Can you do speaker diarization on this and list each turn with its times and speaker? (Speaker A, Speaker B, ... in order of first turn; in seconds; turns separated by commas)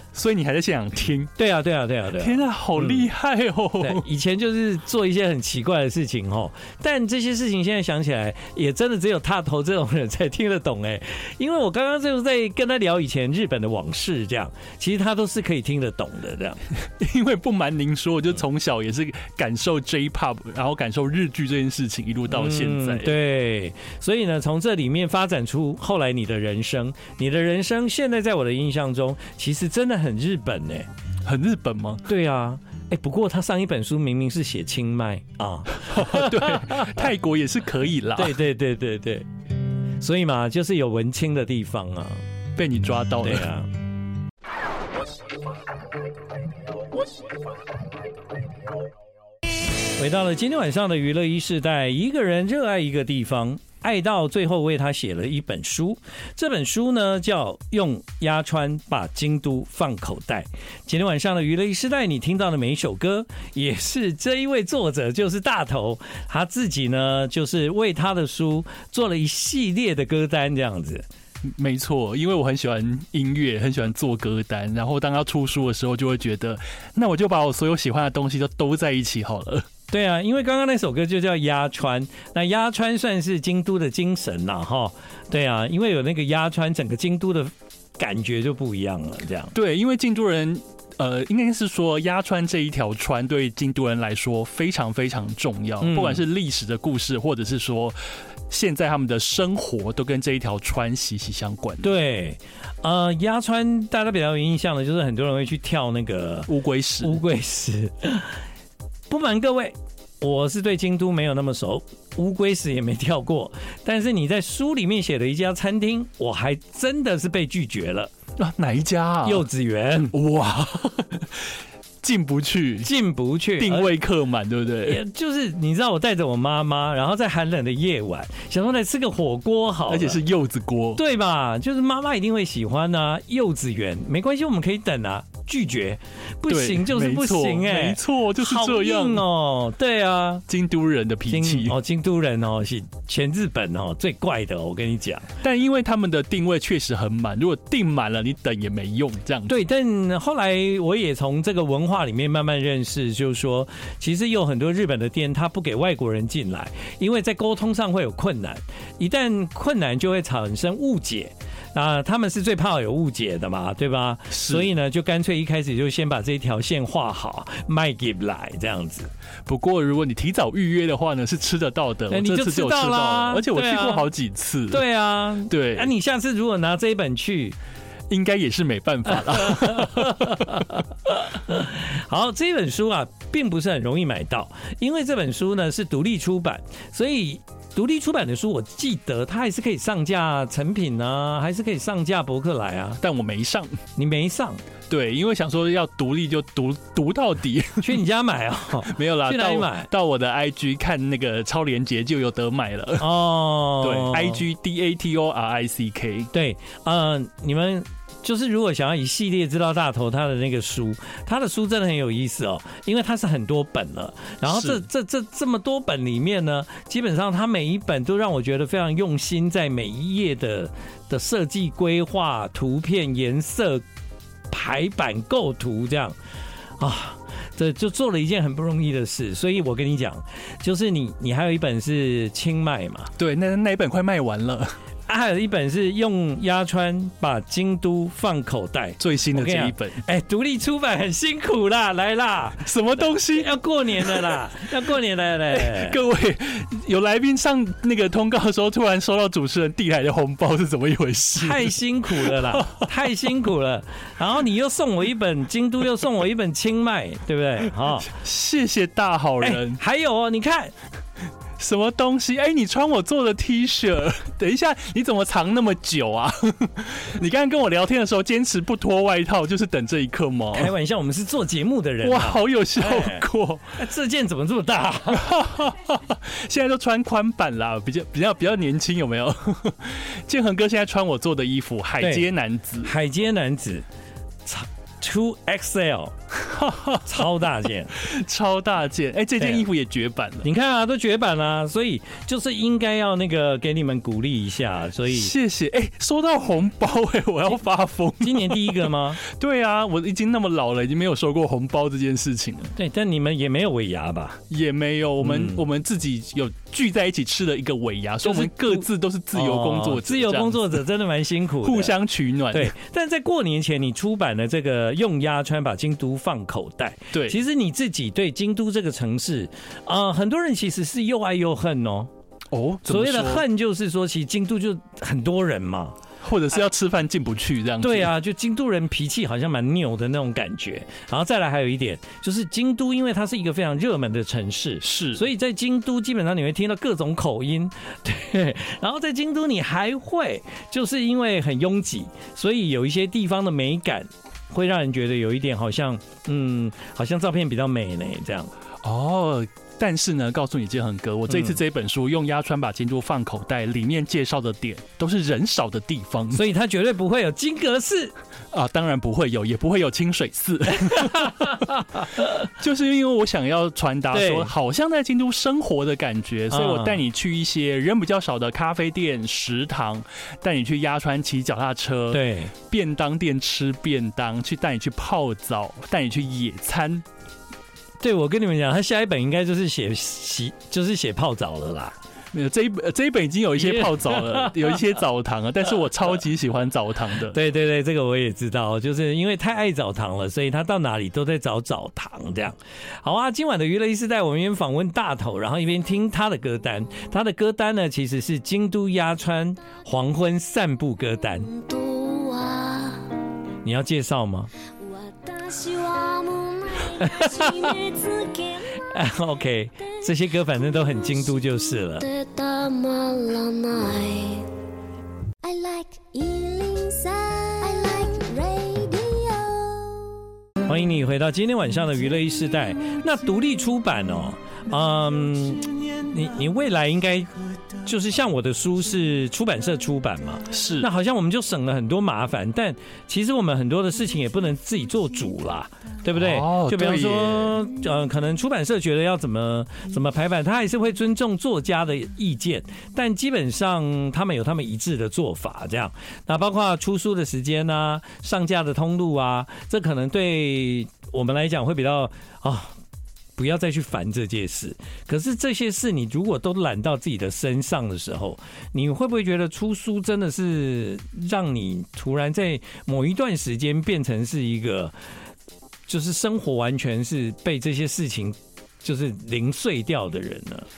Speaker A: 0.1-1.3, Speaker B: 1.4-3.1, Speaker A: 2.2-4.0, Speaker B: 3.8-16.6, Speaker A: 17.0-23.1, Speaker B: 22.3-30.9, Speaker A: 31.2-32.0, Speaker B: 32.0-37.1, Speaker A: 35.8-38.4, Speaker B: 38.1-39.3, Speaker B: 40.0-42.2, Speaker A: 42.5-43.5, Speaker B: 43.2-43.7, Speaker B: 50.0-71.0, Speaker A: 71.4-79.7, Speaker B: 79.9-89.5, Speaker A: 89.5-98.0, Speaker B: 95.8-96.2, Speaker A: 98.5-101.9, Speaker B: 101.8-106.5, Speaker A: 106.5-107.2, Speaker B: 107.0-108.4, Speaker B: 109.1-118.1, Speaker A: 118.4-119.5, Speaker B: 119.2-120.1, Speaker A: 120.1-121.5, Speaker A: 122.0-122.9, Speaker B: 122.8-123.9, Speaker A: 123.6-125.0, Speaker B: 124.8-130.2, Speaker A: 129.9-131.0, Speaker B: 130.9-140.4, Speaker A: 136.5-139.2, Speaker A: 140.5-141.8, Speaker B: 141.3-145.3, Speaker A: 145.4-149.5, Speaker B: 149.5-169.1, Speaker A: 164.3-164.7, Speaker A: 169.4-174.8, Speaker B: 172.1-174.1, Speaker B: 174.7-177.6, Speaker A: 175.5-175.9, Speaker A: 178.1-180.6, Speaker B: 179.3-193.0, Speaker A: 193.0-193.8, Speaker B: 193.9-194.6, Speaker A: 194.9-198.0, Speaker B: 197.8-199.9, Speaker A: 198.8-203.1, Speaker B: 203.0-204.4, Speaker A: 203.8-206.3, Speaker B: 206.3-223.8, Speaker A: 214.4-214.8, Speaker B: 224.5-226.2, Speaker B: 226.8-233.1, Speaker A: 233.2-234.7, Speaker B: 235.1-246.0, Speaker A: 239.0-240.0, Speaker A: 242.6-244.5, Speaker A: 245.5-252.8, Speaker B: 251.3-258.1, Speaker A: 258.1-259.8, Speaker B: 259.4-260.7, Speaker A: 261.6-270.7, Speaker B: 270.5-275.4, Speaker A: 272.0-273.7, Speaker A: 275.1-282.9, Speaker B: 282.0-282.3, Speaker B: 282.8-283.9, Speaker B: 284.4-286.1, Speaker A: 286.3-287.2, Speaker B: 287.0-288.0, Speaker A: 288.0-290.4, Speaker B: 289.4-289.6, Speaker B: 290.4-295.3, Speaker A: 295.1-302.7, Speaker B: 298.2-299.2, Speaker B: 302.7-304.4, Speaker A: 304.5-310.8, Speaker B: 305.2-305.6, Speaker B: 308.2-311.9, Speaker A: 311.6-312.7, Speaker B: 312.5-322.1, Speaker A: 317.1-317.4, Speaker A: 322.5-323.4, Speaker B: 322.9-326.0, Speaker A: 326.2-328.1, Speaker B: 327.8-348.5, Speaker A: 334.8-335.2, Speaker A: 348.8-356.4, Speaker B: 351.3-351.6, Speaker B: 356.3-358.1, Speaker A: 358.5-377.0, Speaker B: 361.0-362.4, Speaker B: 364.1-364.5, Speaker B: 366.5-367.0, Speaker B: 372.1-372.5, Speaker B: 378.0-381.9, Speaker A: 382.3-387.4, Speaker B: 383.6-384.8, Speaker B: 387.3-401.5, Speaker C: 401.4-403.1, Speaker B: 403.6-404.5, Speaker C: 404.8-408.7, Speaker B: 407.0-407.7, Speaker B: 408.9-412.0, Speaker C: 412.0-414.5, Speaker C: 415.4-420.2, Speaker B: 420.6-452.7, Speaker A: 430.5-430.9, Speaker A: 436.1-437.6, Speaker B: 453.4-464.9, Speaker B: 465.9-470.7